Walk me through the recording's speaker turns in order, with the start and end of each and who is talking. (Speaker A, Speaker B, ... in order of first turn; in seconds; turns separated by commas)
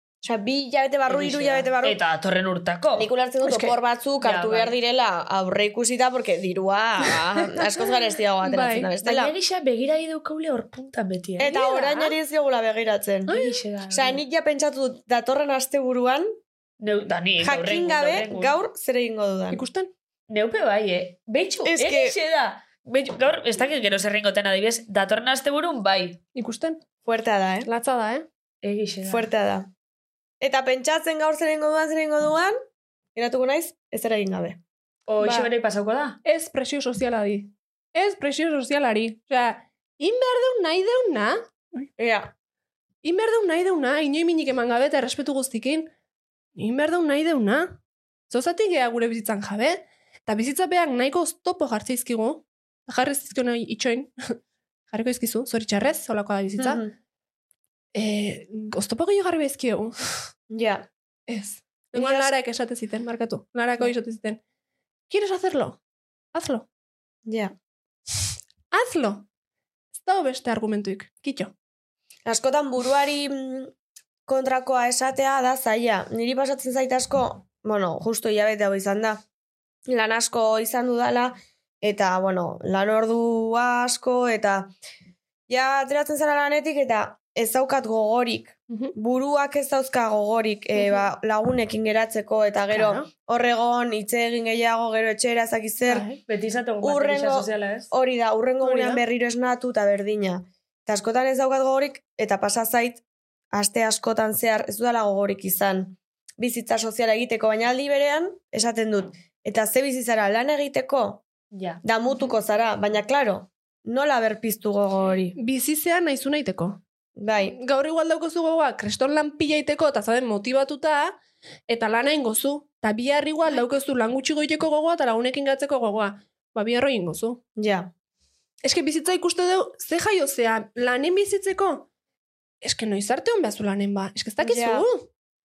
Speaker A: 0.2-2.0, Speaker B: 1.1-3.1, Speaker A: 3.0-9.3, Speaker C: 3.4-3.8, Speaker B: 4.2-4.8, Speaker C: 8.4-8.9, Speaker B: 9.0-11.6, Speaker A: 11.4-13.3, Speaker C: 11.4-12.2, Speaker C: 13.3-13.6, Speaker B: 13.3-14.2, Speaker A: 13.9-16.3, Speaker B: 16.8-18.5, Speaker A: 17.4-19.6, Speaker C: 19.5-19.9, Speaker B: 20.3-26.2, Speaker A: 21.6-22.2, Speaker C: 26.4-26.8, Speaker A: 27.1-27.7, Speaker C: 27.6-28.3, Speaker B: 28.6-29.3, Speaker A: 29.1-29.7, Speaker A: 30.4-32.5, Speaker A: 33.1-34.6, Speaker B: 35.1-36.2, Speaker C: 35.2-35.5, Speaker C: 36.2-41.9, Speaker A: 42.0-42.3, Speaker C: 43.0-45.9, Speaker C: 46.6-47.8, Speaker C: 48.3-54.1, Speaker C: 54.9-56.8, Speaker A: 56.6-56.9, Speaker C: 58.0-60.3, Speaker A: 60.5-60.9, Speaker C: 61.3-64.4, Speaker A: 61.9-62.3, Speaker C: 65.1-65.8, Speaker C: 66.3-66.7, Speaker A: 67.3-67.5, Speaker C: 68.7-69.3, Speaker C: 70.0-71.5, Speaker A: 72.3-73.7, Speaker A: 74.3-79.2, Speaker A: 79.9-84.7, Speaker A: 85.5-96.1, Speaker C: 90.8-91.1, Speaker C: 92.7-93.1, Speaker C: 95.8-96.2, Speaker B: 96.2-97.9, Speaker A: 96.8-111.2, Speaker C: 98.6-99.0, Speaker B: 111.5-111.8, Speaker A: 111.8-115.4, Speaker C: 115.4-116.8, Speaker A: 117.2-117.6, Speaker C: 117.5-127.4, Speaker A: 127.6-127.9, Speaker C: 128.6-131.9, Speaker C: 132.6-135.1, Speaker A: 134.4-134.9